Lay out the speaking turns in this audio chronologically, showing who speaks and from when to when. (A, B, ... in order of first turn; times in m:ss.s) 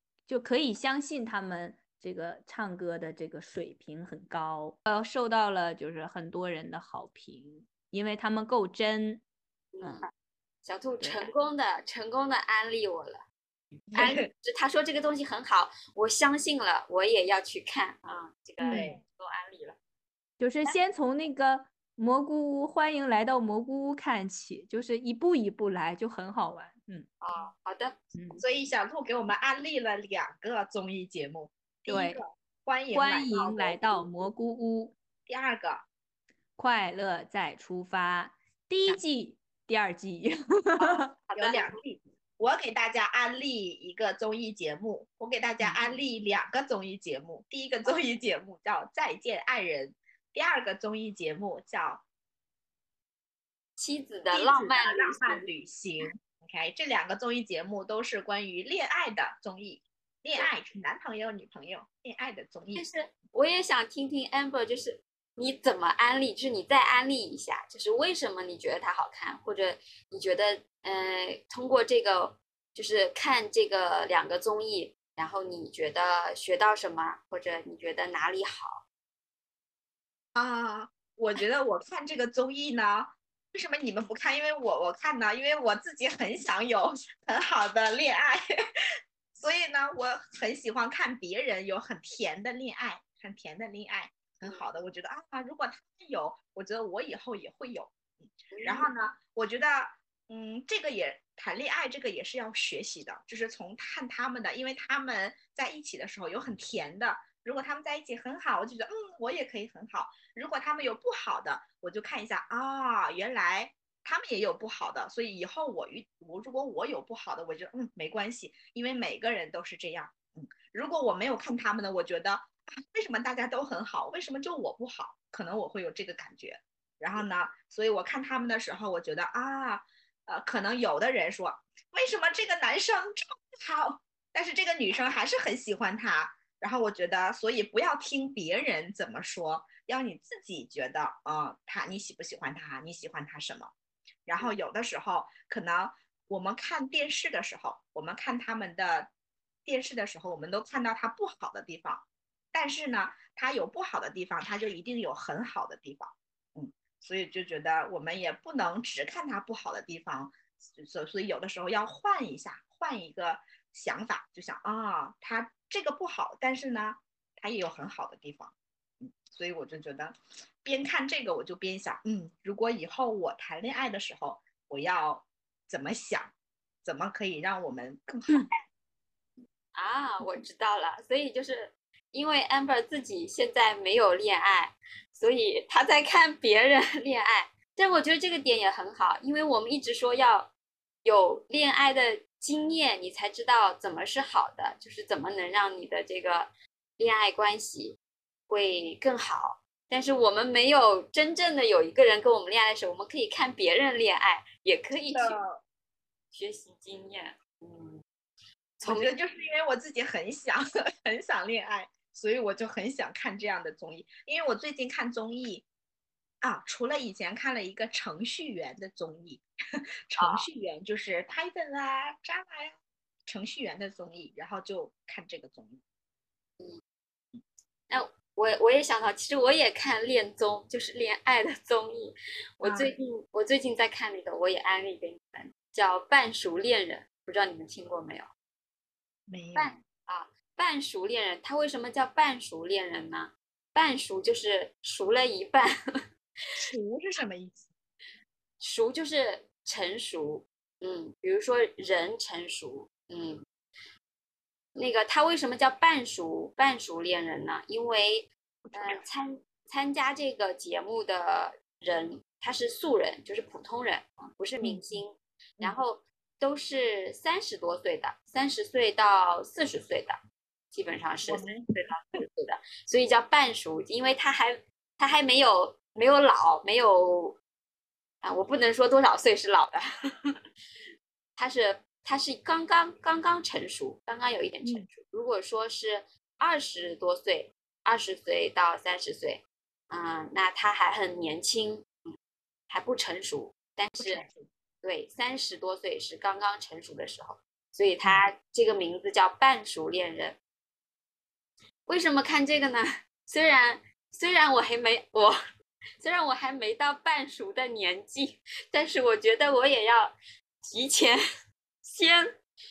0:00.3-0:09.2 A
0:09.7-0:10.1 B
0:09.8-0:10.1 A
0:10.6-0:13.2 B
0:11.0-0:11.3 A
0:13.9-0:14.3 C
0:13.9-0:19.8 B
0:18.6-0:19.0 A
0:18.7-0:19.0 C
0:20.4-0:27.1 A
0:27.2-0:28.0 B
0:28.1-0:28.4 A
0:28.4-0:34.0 C
0:31.9-0:32.2 A
0:32.9-0:34.9 A
0:35.3-0:35.8 C
0:36.6-0:41.1 A
0:40.8-0:41.8 B
0:41.4-0:52.0 C
0:45.7-0:46.0 B
0:53.8-0:55.5 B
0:54.3-1:02.8 C
1:02.7-1:18.8 B
1:20.3-1:28.4 C
1:29.3-2:23.7 C
1:38.5-1:38.9 B
2:24.3-2:29.1 C
2:29.6-2:58.5 C
2:59.7-3:10.5 B
3:11.0-3:18.0 B
3:18.5-3:25.4 B
3:25.1-3:25.6 C
3:26.3-3:28.0 B
3:28.8-3:29.1 B
3:28.8-3:35.6 C
3:36.4-3:39.4 C
3:40.1-3:45.8 C
3:40.2-3:40.4 B
3:47.9-3:58.3 B
3:52.6-3:53.0 C
3:59.3-3:59.8 C
3:59.6-4:05.7 B
4:06.6-4:07.7 C
4:08.6-4:13.4 B
4:14.7-4:30.2 B
4:18.6-4:19.0 A
4:24.6-4:25.0 C
4:30.7-4:37.4 B
4:31.3-4:31.7 C
4:38.2-4:40.4 B
4:41.4-4:51.9 B
4:52.7-4:54.2 B
4:54.0-4:54.5 C
4:54.8-5:00.4 B
5:01.9-5:05.4 B
5:06.0-5:11.2 B
5:11.8-5:12.4 B